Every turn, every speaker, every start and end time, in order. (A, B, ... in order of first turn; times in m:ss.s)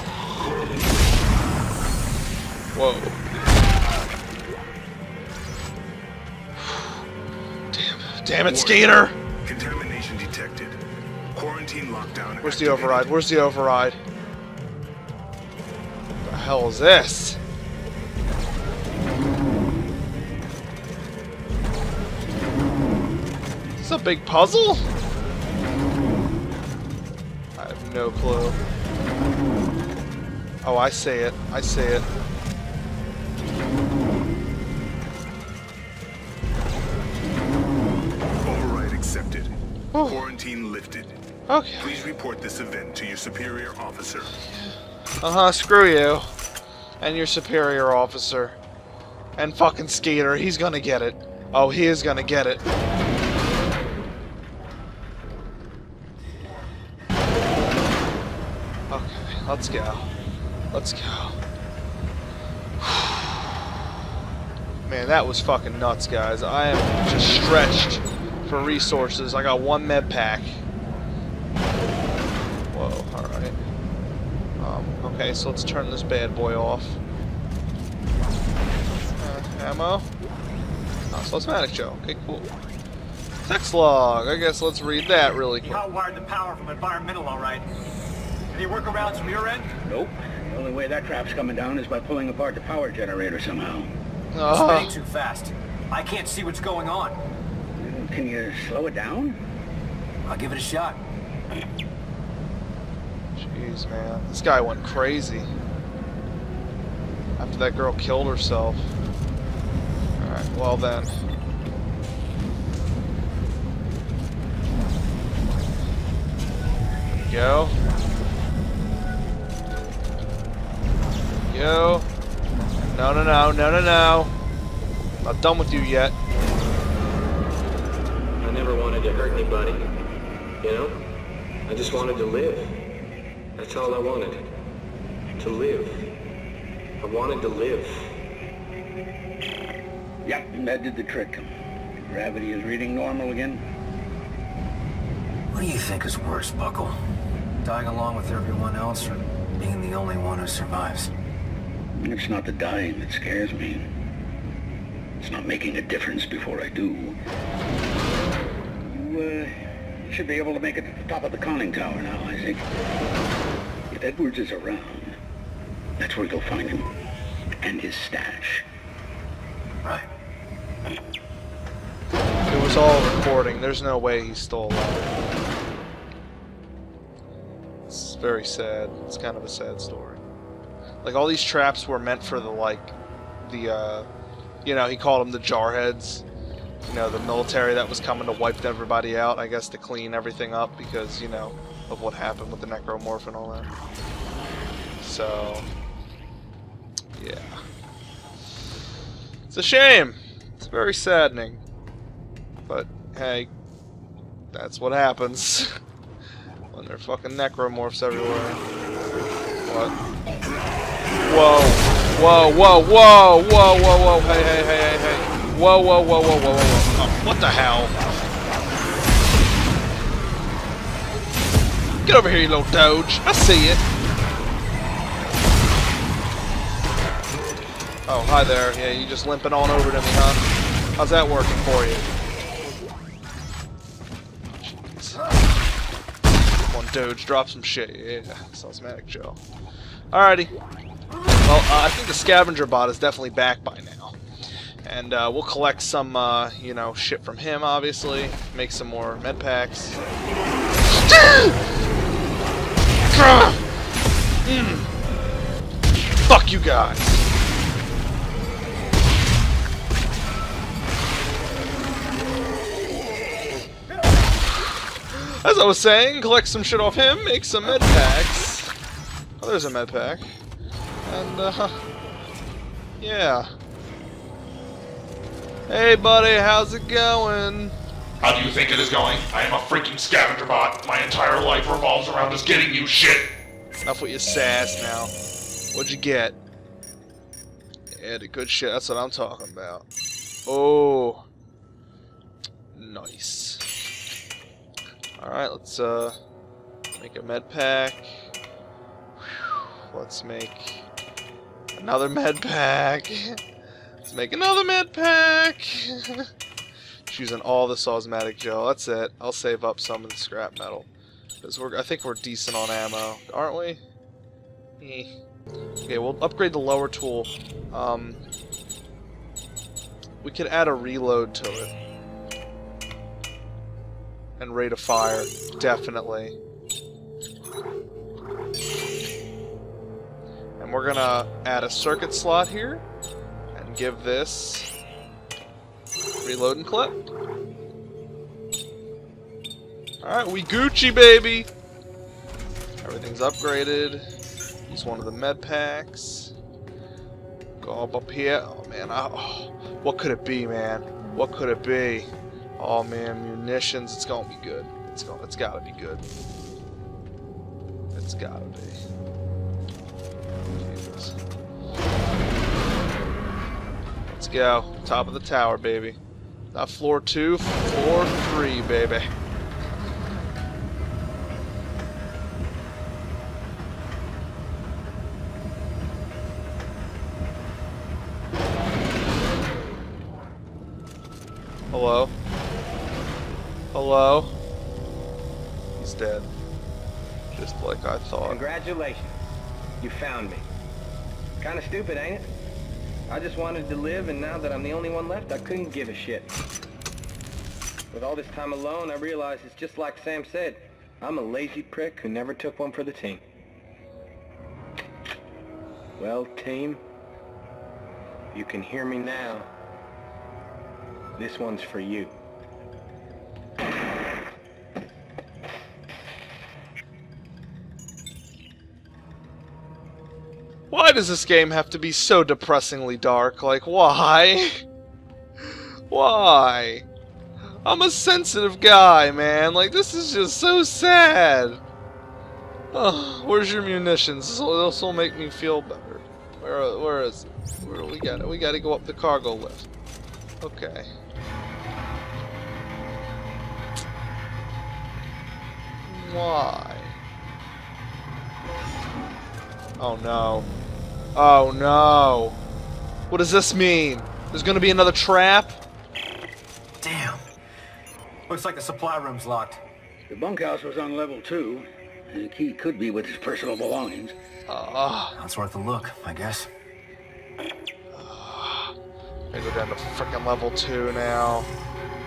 0:02.7-0:03.2 A
0:07.7-0:09.2 A
0:08.5-0:10.8 B
0:11.3-0:13.1 B
0:12.4-0:14.0 A
0:16.2-0:17.4 A
0:23.8-0:24.9 A
0:27.6-0:28.6 A
0:30.6-0:32.1 A
0:38.4-0:39.5 B
0:39.9-0:40.2 A
0:40.0-0:41.2 B
0:41.5-0:41.9 A
0:41.8-0:44.4 B
0:44.5-0:46.3 A
0:47.0-0:48.6 A
0:49.4-0:52.6 A
0:58.9-1:00.1 A
1:00.7-1:01.4 A
1:02.8-1:03.4 A
1:04.9-1:10.6 A
1:12.7-1:13.6 A
1:14.6-1:17.0 A
1:19.2-1:20.1 A
1:21.1-1:22.5 A
1:23.4-1:25.8 A
1:25.6-1:27.7 C
1:28.5-1:29.7 C
1:29.8-1:34.0 D
1:34.3-1:35.0 A
1:34.5-1:37.2 C
1:37.8-1:39.4 D
1:40.2-1:41.0 C
1:43.4-1:45.5 A
1:47.4-1:48.9 A
1:50.2-1:51.1 A
1:57.2-1:57.8 A
2:01.5-2:02.1 A
2:02.8-2:04.3 A
2:05.2-2:06.2 A
2:08.4-2:09.8 E
2:10.6-2:11.0 E
2:11.7-2:12.8 E
2:13.6-2:14.5 E
2:15.4-2:16.1 E
2:17.0-2:18.1 E
2:20.2-2:21.5 D
2:22.1-2:23.6 D
2:25.5-2:27.0 C
2:27.6-2:31.1 C
2:32.0-2:33.9 D
2:35.2-2:37.2 D
2:38.8-2:42.6 D
2:43.9-2:45.2 D
2:46.0-2:46.9 D
2:47.6-2:48.6 D
2:49.8-2:50.1 C
2:52.5-2:55.1 A
2:57.9-3:00.2 A
3:01.0-3:04.1 A
3:04.6-3:06.2 A
3:06.8-3:13.7 A
3:15.0-3:15.7 A
3:17.2-3:17.6 A
3:19.5-3:21.6 A
3:22.7-3:23.5 A
3:24.5-3:25.7 A
3:26.7-3:28.6 A
3:29.6-3:29.9 A
3:31.2-3:37.9 A
3:42.0-3:43.8 A
3:48.1-3:50.5 A
3:51.0-3:52.1 A
3:54.6-3:55.4 A
3:56.6-3:59.4 A
4:00.1-4:00.5 A
4:01.4-4:04.2 A
4:04.8-4:10.0 A
4:10.9-4:11.6 A
4:13.1-4:13.6 A
4:14.4-4:14.9 A
4:16.3-4:17.2 A
4:25.1-4:28.8 A
4:29.4-4:30.2 A
4:31.1-4:31.8 A
4:33.0-4:33.5 A
4:35.7-4:37.8 A
4:38.2-4:43.3 F
4:43.8-4:45.1 A
4:45.7-4:46.4 A
4:47.9-4:49.9 A
4:50.5-4:51.2 A
4:52.7-4:53.7 A
4:55.2-4:56.2 A
4:57.0-4:58.2 A
4:59.2-5:00.8 A
5:01.7-5:03.4 A
5:04.0-5:06.3 A
5:07.1-5:10.9 A
5:11.4-5:13.8 A
5:14.8-5:15.1 A
5:15.9-5:18.2 A
5:20.2-5:21.7 A
5:24.4-5:26.4 A
5:30.6-5:32.8 A
5:33.5-5:34.7 A
5:36.2-5:37.0 A
5:40.0-5:41.5 A
5:42.8-5:44.1 A
5:44.7-5:46.3 A
5:47.6-5:56.0 A
5:57.9-5:58.8 A
6:00.6-6:01.2 A
6:04.1-6:06.0 A
6:06.5-6:09.1 A
6:21.7-6:22.1 A
6:23.7-6:24.3 A
6:25.8-6:26.3 A
6:27.3-6:28.4 A
6:28.2-6:29.2 E
6:29.8-6:30.4 E
6:31.4-6:32.3 E
6:33.1-6:36.3 E
6:37.9-6:43.2 E
6:46.0-6:46.8 E
6:48.3-6:49.5 E
6:51.2-6:52.2 E
7:00.7-7:04.6 A
7:05.4-7:06.9 A
7:07.4-7:11.6 A
7:12.7-7:19.7 A
7:20.4-7:20.9 A
7:25.9-7:27.0 A
7:29.8-7:30.5 A
7:31.2-7:32.4 A
7:33.1-7:35.6 A
7:36.8-7:37.2 C
7:38.3-7:39.6 C
7:40.1-7:44.2 D
7:44.5-7:45.2 A
7:45.2-7:46.5 C
7:47.9-7:48.7 A
7:49.3-7:51.5 A